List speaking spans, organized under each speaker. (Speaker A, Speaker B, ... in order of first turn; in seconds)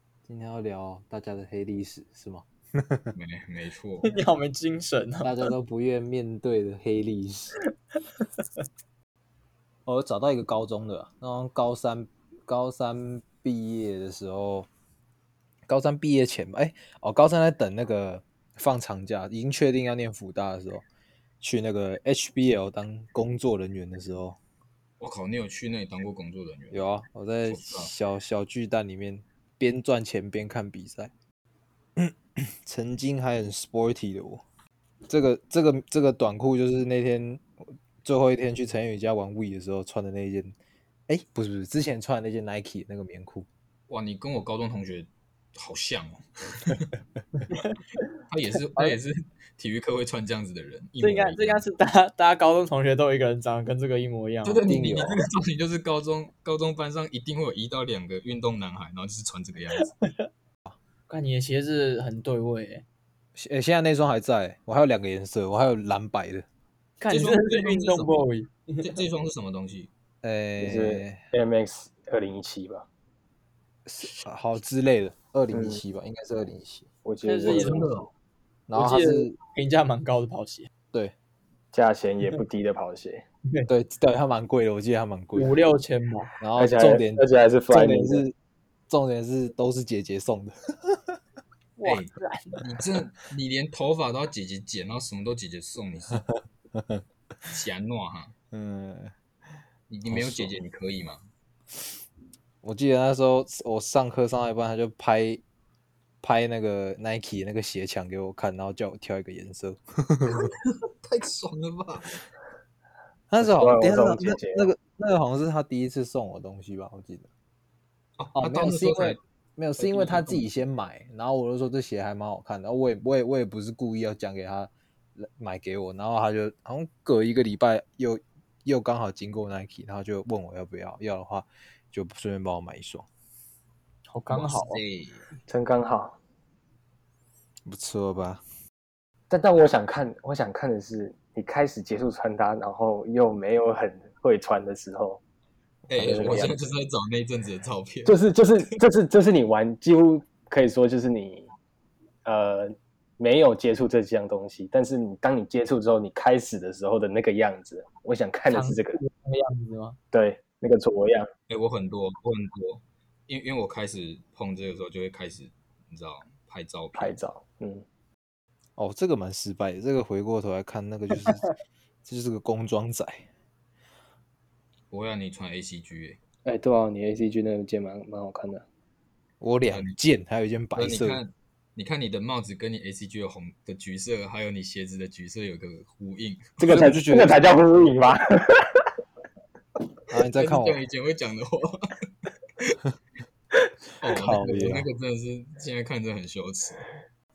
Speaker A: 0.3-3.1, 5.2-7.6, 9.9-14.7, 15.7-20.9, 21.4-24.4, 26.7-31.1, 32.0-34.4, 35.1-37.5, 38.0-40.6, 41.1-43.5, 54.7-55.2, 63.4-66.5, 70.2-71.2, 73.9-76.9, 78.7-79.4, 83.7-85.5, 86.4-88.3, 88.9-91.2, 96.7-97.0, 98.5-99.1, 100.1-100.5, 102.6-105.4, 106.2-110.5, 113.3-117.3, 118.4-133.1, 137.7-138.4, 168.8-171.5, 172.1-173.3, 179.4-181.2, 186.6-187.4, 190.1-190.8, 194.0-194.9
Speaker B: 3.1-4.2, 25.0-26.9, 27.4-27.9, 43.9-46.9, 48.1-51.6, 54.4-59.9, 67.1-68.3, 68.8-69.9, 77.5-78.1, 91.8-96.2, 97.5-98.3, 99.9-101.3, 110.2-112.2, 118.2-119.2, 119.8-120.4, 134.3-135.2, 145.9-148.7, 161.5-167.2, 174.9-176.2, 179.7-180.0, 180.8-187.1, 190.1-192.1, 194.0-196.8
Speaker C: 4.0-5.5, 51.0-54.7, 59.9-60.3, 61.1-62.9, 67.0-69.0, 77.2-77.9, 78.7-80.7, 85.3-86.3, 91.8-92.6, 134.1-134.8, 158.5-160.0
Speaker D: 70.6-72.9, 75.5-75.8, 77.0-78.0, 81.7-83.2, 86.6-88.2, 113.4-114.7, 135.5-136.2, 139.3-145.2, 145.9-146.6, 148.1-151.5, 152.2-159.0, 160.1-161.3, 166.9-167.8, 176.4-178.7, 186.7-188.9